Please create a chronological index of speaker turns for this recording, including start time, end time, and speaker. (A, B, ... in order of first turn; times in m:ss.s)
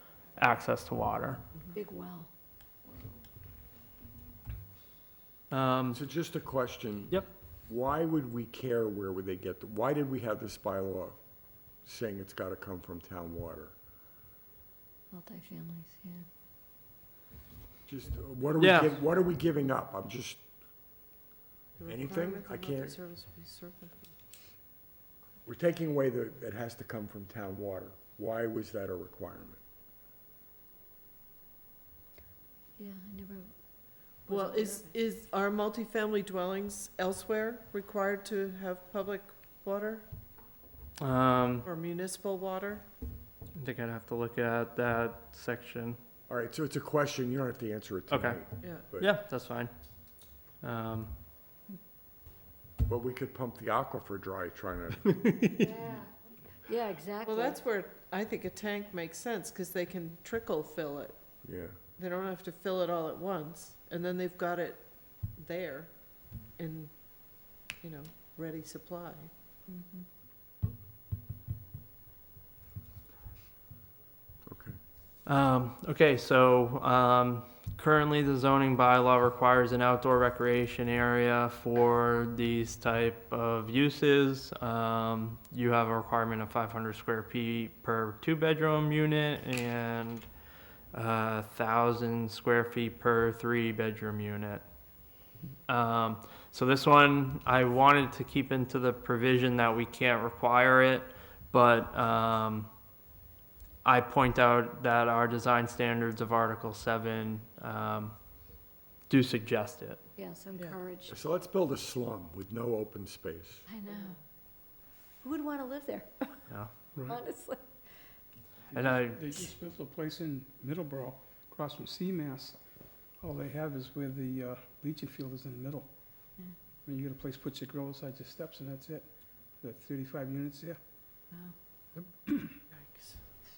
0:00.4-0:01.4 A
0:01.7-0:02.3 B
0:05.5-0:06.0 A
0:05.9-0:11.2 C
0:11.8-0:13.7 C
0:15.1-0:16.3 B
0:17.8-0:20.4 C
0:18.6-0:19.0 A
0:21.8-0:24.2 D
0:21.9-0:23.0 C
0:25.4-0:29.6 C
0:32.8-0:34.9 B
0:34.3-0:40.1 D
0:41.0-0:41.7 A
0:41.6-0:42.8 D
0:43.5-0:46.0 A
0:46.3-0:49.1 C
0:48.1-0:49.7 A
0:50.6-0:51.1 A
0:52.9-0:56.0 C
0:55.4-0:55.7 A
0:56.6-0:57.6 B
0:57.2-1:01.4 D
1:01.4-1:01.8 C
1:02.0-1:09.3 D
1:09.7-1:10.0 B
1:14.4-1:14.8 C
1:15.2-1:30.3 A
1:30.9-1:34.6 A
1:35.7-1:42.7 A
1:43.8-1:48.2 A
1:49.1-1:50.0 A
1:50.2-1:51.2 B
1:51.1-1:53.6 C
1:53.7-1:54.2 B
1:53.8-1:54.2 D
1:55.2-1:58.2 B
1:56.9-1:57.2 E
1:58.7-2:11.2 E
1:58.7-1:59.4 A
2:11.3-2:11.6 B
2:12.1-2:12.6 E
2:12.7-2:13.2 D